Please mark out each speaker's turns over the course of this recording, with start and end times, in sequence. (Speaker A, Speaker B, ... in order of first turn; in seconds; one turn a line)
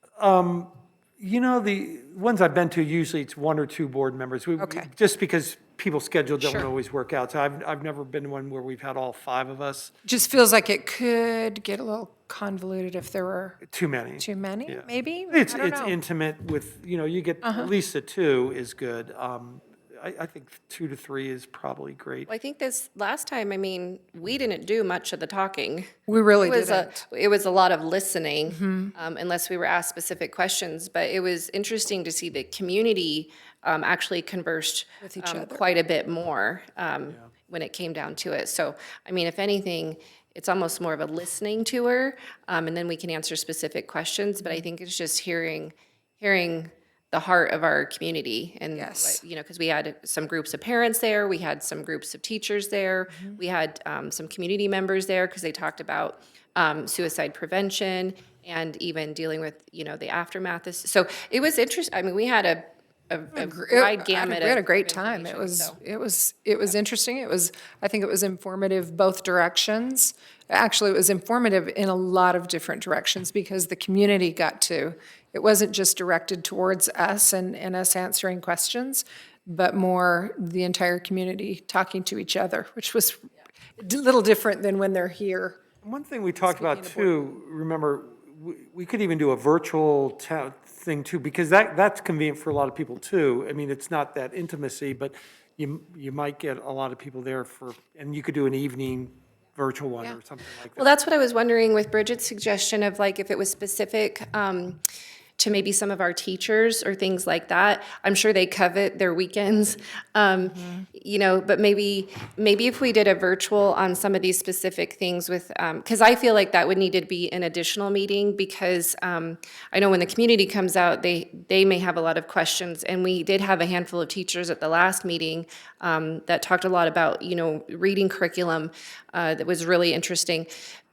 Speaker A: 0.2-9.9
Speaker B: 4.6-4.9
Speaker B: 6.4-6.7
Speaker B: 10.1-13.6
Speaker A: 13.7-22.3
Speaker B: 14.2-15.9
Speaker B: 17.4-17.7
Speaker C: 22.3-65.8
Speaker B: 26.1-27.0
Speaker B: 28.5-28.9
Speaker B: 35.0-35.6
Speaker B: 48.7-49.2
Speaker B: 63.3-83.2
Speaker B: 83.8-85.6
Speaker A: 85.8-100.9
Speaker B: 86.5-87.2
Speaker C: 100.8-104.8
Speaker C: 105.4-130.5